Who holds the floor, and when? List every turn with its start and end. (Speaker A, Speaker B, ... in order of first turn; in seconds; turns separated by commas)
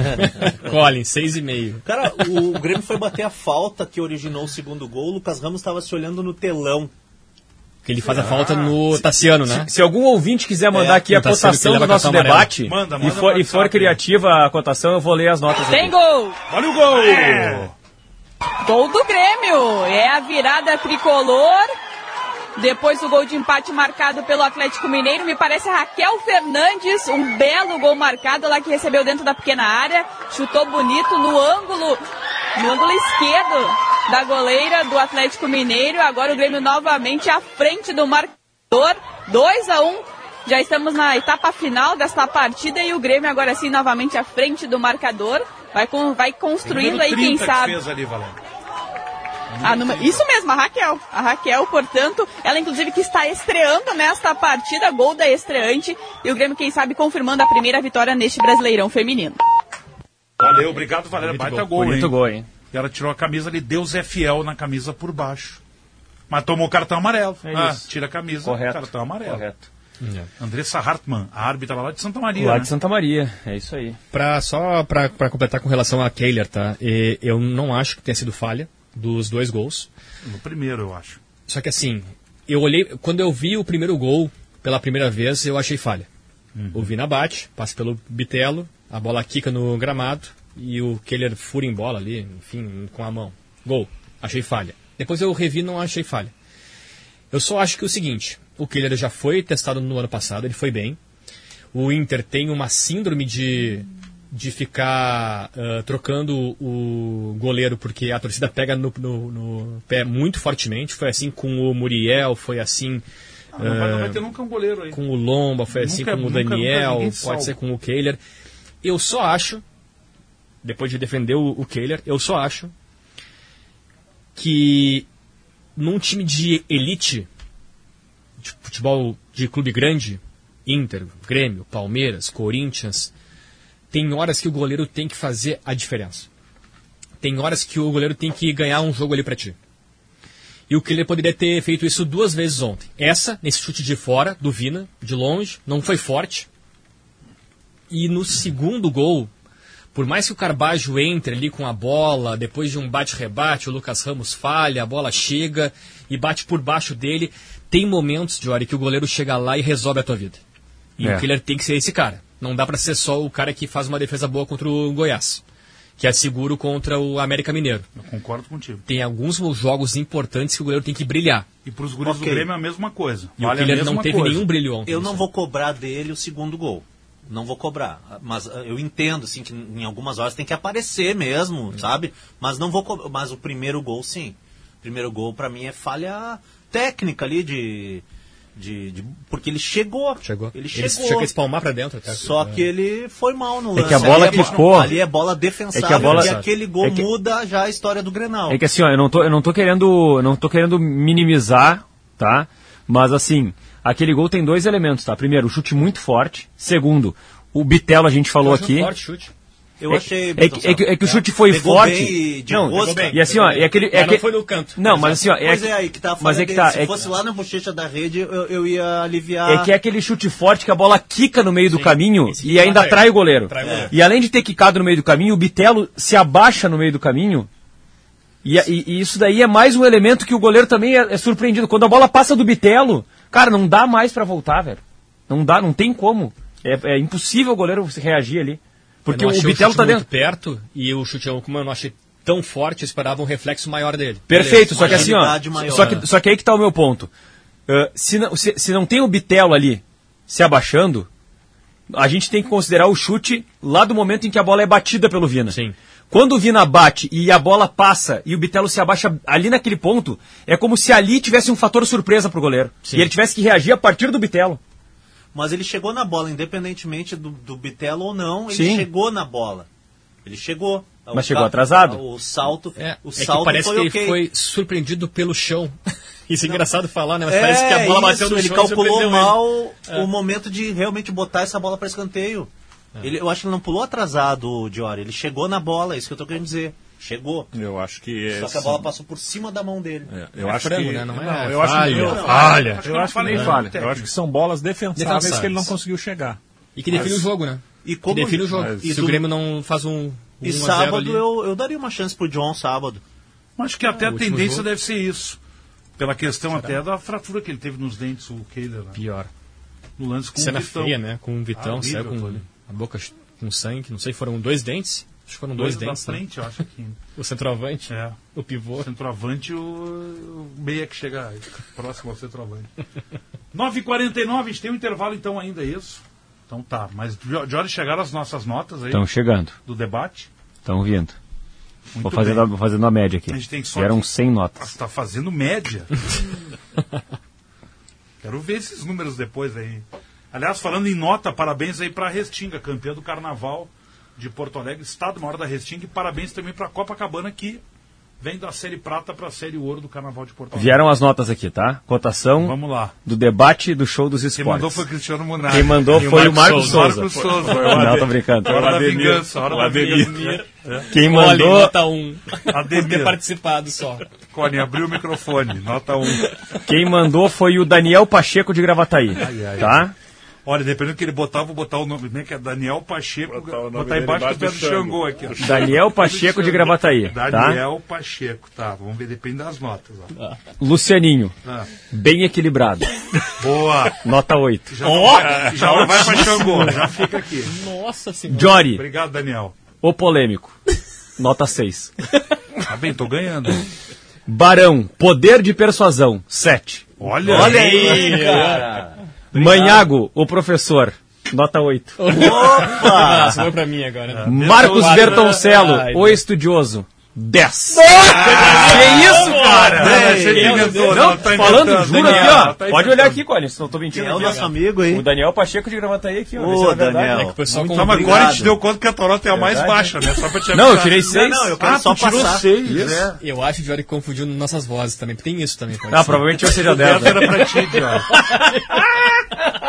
Speaker A: 0.1-1.8, Speaker B: 1.8-6.9, Speaker A: 7.8-9.7, Speaker C: 8.0-8.8, Speaker D: 9.4-15.9, Speaker B: 10.7-11.1, Speaker A: 11.0-12.6, Speaker C: 12.6-14.0, Speaker E: 15.7-16.4, Speaker C: 16.5-17.7, Speaker E: 18.6-21.7, Speaker E: 22.6-32.0, Speaker E: 32.5-47.8, Speaker C: 46.6-48.4, Speaker C: 49.5-50.2, Speaker E: 49.6-59.4, Speaker C: 60.4-62.1, Speaker A: 61.1-61.7, Speaker D: 61.7-62.5, Speaker C: 62.7-65.6, Speaker C: 66.3-69.4, Speaker D: 67.4-67.9, Speaker D: 68.4-69.7, Speaker A: 70.0-70.3, Speaker C: 70.4-72.7, Speaker D: 72.3-74.0, Speaker A: 74.1-79.9, Speaker C: 80.2-81.2, Speaker A: 81.5-86.1, Speaker C: 86.5-86.9, Speaker A: 86.7-96.3, Speaker A: 97.3-101.0, Speaker A: 101.7-113.0, Speaker C: 113.5-115.0, Speaker A: 113.6-114.2, Speaker A: 114.9-118.2, Speaker C: 115.7-117.5, Speaker A: 118.8-119.6, Speaker A: 120.6-122.7, Speaker A: 124.3-125.1, Speaker A: 125.8-127.3, Speaker A: 128.4-133.1, Speaker A: 133.9-136.3, Speaker A: 137.2-139.6, Speaker A: 140.7-146.5, Speaker A: 147.9-149.3, Speaker A: 149.9-160.4, Speaker A: 161.0-165.4, Speaker D: 161.0-161.3, Speaker A: 166.0-167.9, Speaker C: 167.9-168.8, Speaker A: 168.9-171.5, Speaker C: 171.6-174.5, Speaker B: 172.0-172.5, Speaker A: 173.4-175.2, Speaker B: 174.8-188.0, Speaker B: 188.5-191.3, Speaker A: 190.2-192.7, Speaker B: 192.1-198.6, Speaker D: 193.7-195.0, Speaker C: 193.9-195.0, Speaker D: 195.7-197.1, Speaker A: 195.9-196.5, Speaker D: 198.5-208.9, Speaker A: 208.4-209.3, Speaker B: 209.8-213.6, Speaker D: 209.9-217.1, Speaker A: 212.7-215.2, Speaker B: 214.9-219.7, Speaker D: 219.4-227.5, Speaker A: 221.7-223.9, Speaker B: 223.6-223.9, Speaker D: 228.4-240.1, Speaker A: 239.1-246.1, Speaker D: 244.3-247.1, Speaker B: 244.4-246.1, Speaker D: 247.7-251.1, Speaker D: 251.9-255.6, Speaker A: 255.5-255.7, Speaker D: 256.1-264.6, Speaker A: 262.8-263.1, Speaker B: 265.3-269.7, Speaker D: 268.5-268.9, Speaker B: 270.2-274.2, Speaker D: 271.1-272.0, Speaker A: 272.8-275.7, Speaker A: 276.3-280.1, Speaker B: 277.3-282.5, Speaker B: 283.0-287.5, Speaker F: 287.5-288.9, Speaker B: 288.3-290.1, Speaker F: 290.1-296.4, Speaker A: 290.4-293.4, Speaker B: 291.8-292.6, Speaker C: 292.2-294.1, Speaker D: 293.3-293.8, Speaker A: 294.9-295.7, Speaker A: 296.8-301.3, Speaker F: 296.9-297.2, Speaker B: 297.8-299.3, Speaker F: 298.5-299.1, Speaker B: 300.4-303.0, Speaker C: 303.6-305.4, Speaker A: 303.9-304.7, Speaker C: 306.0-309.0, Speaker A: 308.9-309.3, Speaker C: 310.0-311.0, Speaker A: 310.4-316.2, Speaker C: 311.5-312.4, Speaker C: 315.5-317.0, Speaker A: 317.1-318.9, Speaker C: 317.9-318.2, Speaker C: 318.8-322.7, Speaker C: 323.5-329.1, Speaker D: 328.9-329.6, Speaker C: 329.6-330.3, Speaker D: 330.6-331.2, Speaker C: 331.9-332.5, Speaker D: 332.0-334.7, Speaker C: 333.3-335.9, Speaker C: 338.2-347.6, Speaker C: 348.2-350.8, Speaker D: 350.5-354.9, Speaker C: 352.4-352.9, Speaker C: 354.3-357.9, Speaker D: 355.4-359.4, Speaker A: 355.9-356.9, Speaker F: 357.2-360.4, Speaker C: 358.4-360.9, Speaker A: 359.7-364.0, Speaker D: 360.9-361.8, Speaker C: 362.5-363.2, Speaker C: 364.3-366.3, Speaker D: 366.6-369.9, Speaker C: 369.1-369.9, Speaker C: 370.4-380.1, Speaker F: 373.3-375.7, Speaker D: 375.4-377.6, Speaker A: 380.1-380.4, Speaker D: 380.6-381.3, Speaker C: 381.4-381.7, Speaker D: 381.9-382.9, Speaker C: 383.4-384.0, Speaker D: 384.0-385.9, Speaker C: 384.7-387.5, Speaker F: 385.0-386.6, Speaker A: 386.5-388.6, Speaker D: 388.3-388.8, Speaker C: 388.6-389.6, Speaker D: 389.8-390.6, Speaker D: 391.2-391.9, Speaker C: 392.6-393.6, Speaker D: 394.2-398.6, Speaker C: 397.0-397.8, Speaker B: 397.3-399.9, Speaker A: 397.3-398.8, Speaker D: 399.3-402.2, Speaker A: 402.0-406.2, Speaker B: 402.1-403.5, Speaker C: 404.1-405.5, Speaker D: 404.2-417.3, Speaker A: 407.7-412.6, Speaker C: 408.0-413.2, Speaker B: 409.8-410.7, Speaker B: 413.9-415.1, Speaker B: 416.3-418.6, Speaker A: 417.1-418.5, Speaker C: 417.7-423.1, Speaker D: 419.3-421.6, Speaker B: 421.1-423.1, Speaker A: 423.1-426.6, Speaker D: 425.9-427.7, Speaker C: 426.6-428.2, Speaker A: 427.2-427.5, Speaker A: 428.1-429.1